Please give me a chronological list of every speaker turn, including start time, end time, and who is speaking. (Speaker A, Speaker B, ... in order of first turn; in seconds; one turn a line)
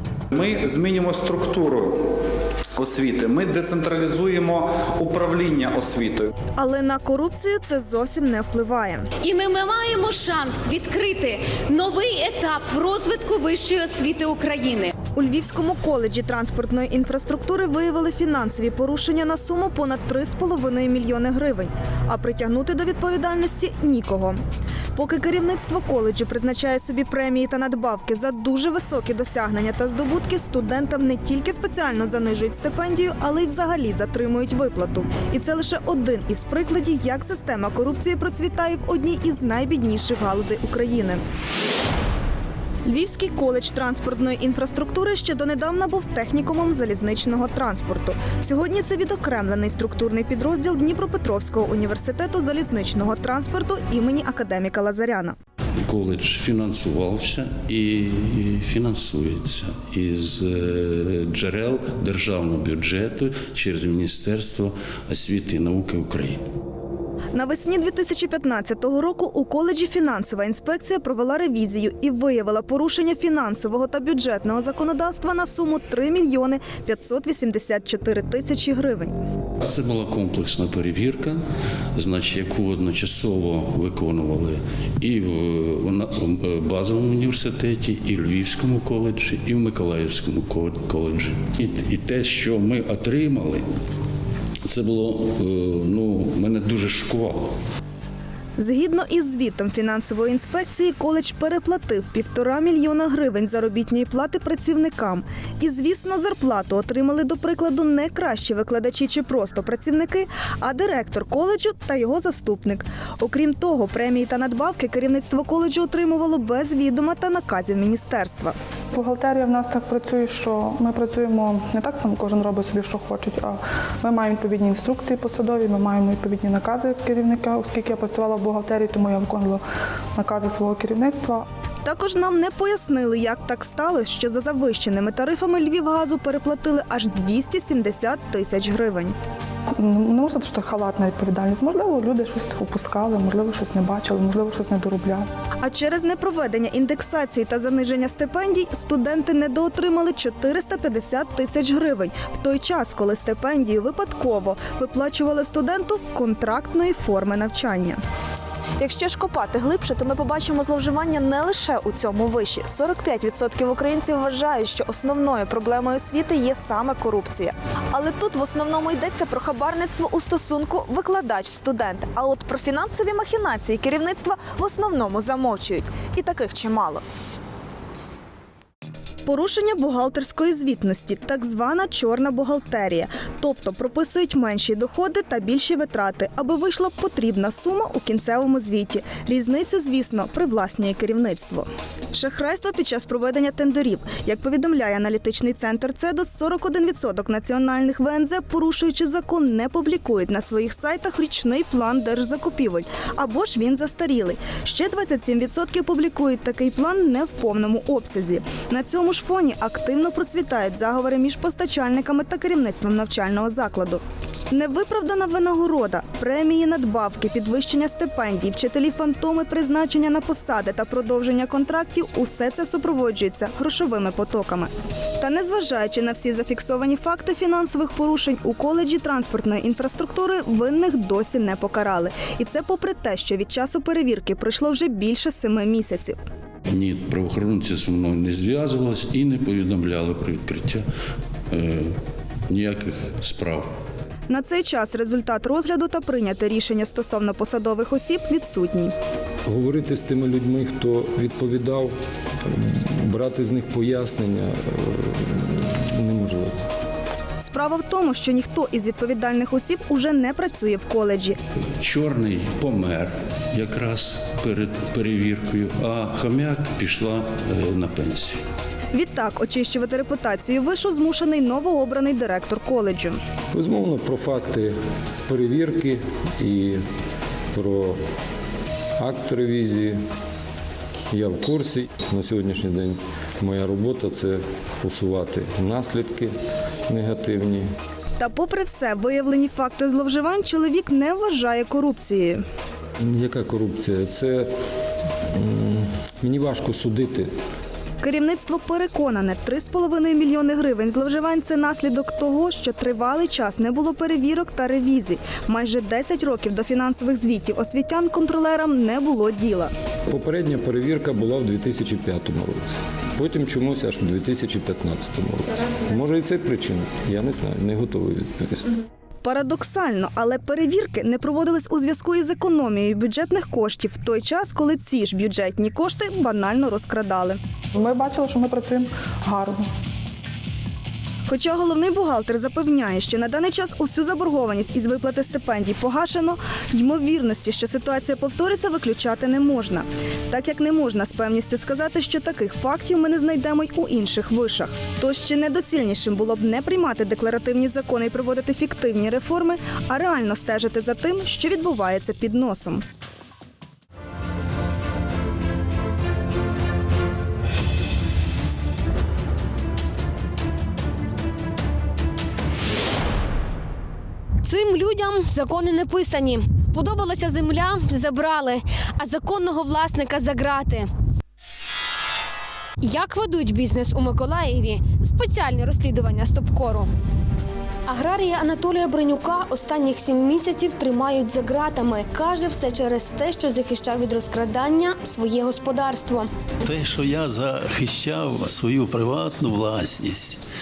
Speaker A: 0.3-2.2
Speaker A: 2.8-6.3
Speaker B: 6.6-9.1
Speaker C: 9.2-14.9
Speaker B: 15.2-24.4
Speaker B: 24.9-41.2
Speaker B: 42.9-55.4
Speaker D: 55.8-66.4
Speaker B: 67.3-79.1
Speaker D: 79.6-81.4
Speaker D: 81.9-93.7
Speaker D: 94.7-97.5
Speaker B: 98.6-118.6
Speaker E: 118.9-129.6
Speaker E: 130.2-131.5
Speaker B: 131.8-139.2
Speaker E: 139.8-145.3
Speaker B: 145.6-158.0
Speaker B: 158.8-177.0
Speaker B: 179.3-236.2
Speaker D: 236.7-240.9
Speaker D: 241.5-242.0
Speaker D: 242.5-243.7
Speaker B: 244.3-248.9
Speaker F: 249.5-256.6
Speaker B: 257.4-261.4
Speaker D: 261.8-268.4
Speaker B: 268.9-273.2
Speaker F: 273.5-274.8
Speaker F: 275.3-276.8
Speaker F: 277.5-278.0
Speaker F: 279.0-280.0
Speaker F: 281.1-286.3
Speaker F: 286.9-287.7
Speaker B: 288.2-292.4
Speaker F: 293.0-294.5
Speaker F: 295.3-297.3
Speaker B: 298.0-309.7
Speaker F: 310.1-318.8
Speaker B: 319.2-327.4
Speaker E: 327.7-329.7
Speaker B: 331.3-352.8
Speaker G: 364.4-370.9
Speaker G: 372.8-376.9
Speaker G: 377.9-386.3
Speaker H: 386.6-390.4